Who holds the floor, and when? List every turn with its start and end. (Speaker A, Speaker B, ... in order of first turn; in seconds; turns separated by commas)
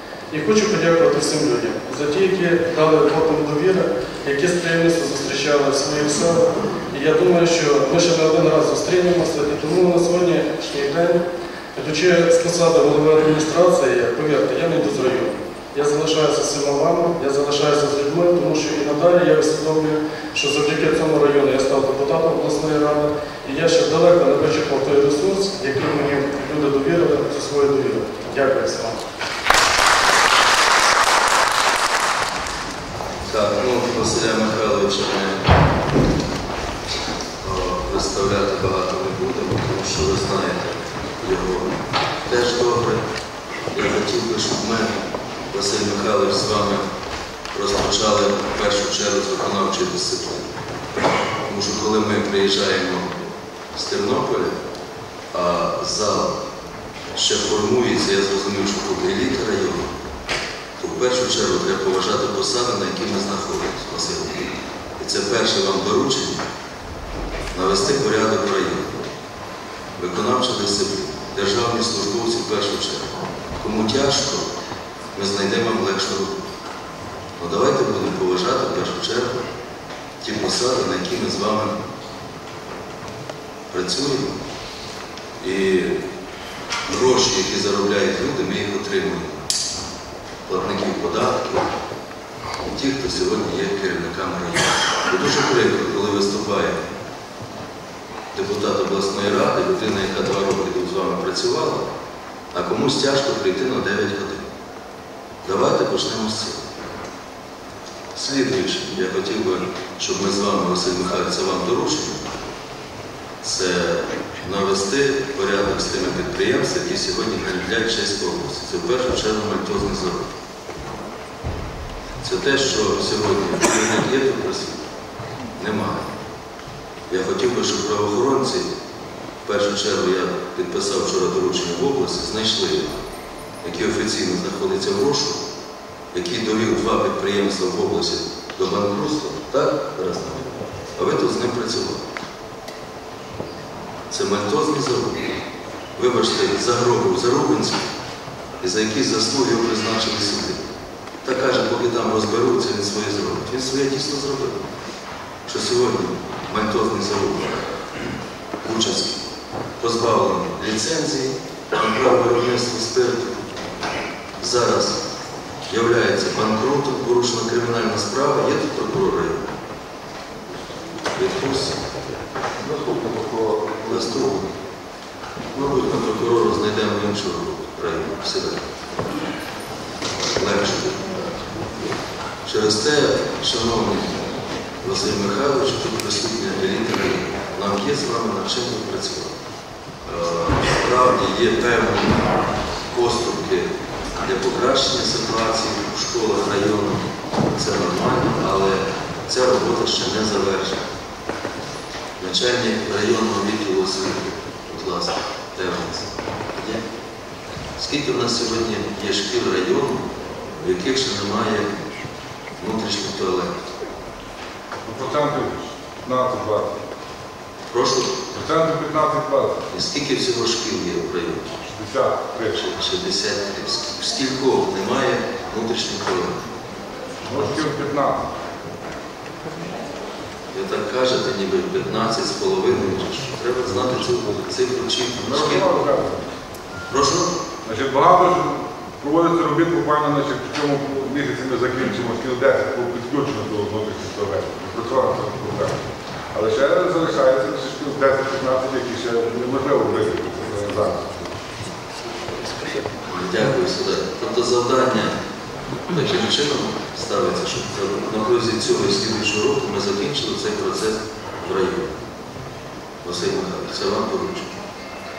Speaker A: 0.3-11.2, Speaker A: 11.7-29.0, Speaker B: 33.3-35.5, Speaker B: 37.4-41.7, Speaker B: 42.3-43.0, Speaker B: 43.7-45.0, Speaker B: 45.5-46.9, Speaker B: 47.5-50.5, Speaker B: 51.5-53.2, Speaker B: 53.7-54.6, Speaker B: 55.3-56.4, Speaker B: 57.1-59.9, Speaker B: 60.8-66.4, Speaker B: 67.5-69.1, Speaker B: 70.0-74.5, Speaker B: 75.2-76.5, Speaker B: 77.4-79.5, Speaker B: 80.2-81.8, Speaker B: 83.7-84.4, Speaker B: 85.4-86.0, Speaker B: 86.9-89.5, Speaker B: 90.5-91.7, Speaker B: 92.7-96.8, Speaker B: 98.3-101.9, Speaker B: 102.5-104.5, Speaker B: 105.4-106.6, Speaker B: 108.1-112.3, Speaker B: 113.4-120.3, Speaker B: 122.2-124.8, Speaker B: 125.6-126.1, Speaker B: 127.1-128.7, Speaker B: 129.4-133.0, Speaker B: 133.6-135.4, Speaker B: 136.1-142.0, Speaker B: 144.1-145.3, Speaker B: 146.0-147.9, Speaker B: 148.6-150.6, Speaker B: 151.2-154.7, Speaker B: 155.5-157.7, Speaker B: 158.6-159.2, Speaker B: 159.8-163.5, Speaker B: 164.4-165.0, Speaker B: 165.7-169.6, Speaker B: 171.2-171.8, Speaker C: 172.6-174.5, Speaker B: 173.9-174.4, Speaker B: 175.5-178.7, Speaker B: 180.4-181.2, Speaker B: 182.4-184.2, Speaker B: 184.8-189.3, Speaker B: 190.1-192.3, Speaker B: 192.9-200.8, Speaker B: 202.2-206.8, Speaker B: 207.8-211.7, Speaker B: 212.6-213.6, Speaker C: 214.8-216.8, Speaker B: 217.7-218.2, Speaker C: 218.3-219.6, Speaker B: 219.7-221.5, Speaker C: 221.7-222.6, Speaker B: 222.5-226.4, Speaker C: 227.3-228.3, Speaker B: 230.5-235.8, Speaker C: 235.2-236.3, Speaker B: 236.9-237.3, Speaker C: 237.7-245.8, Speaker C: 246.3-251.3, Speaker B: 253.1-255.2, Speaker B: 255.9-261.9, Speaker B: 263.0-264.5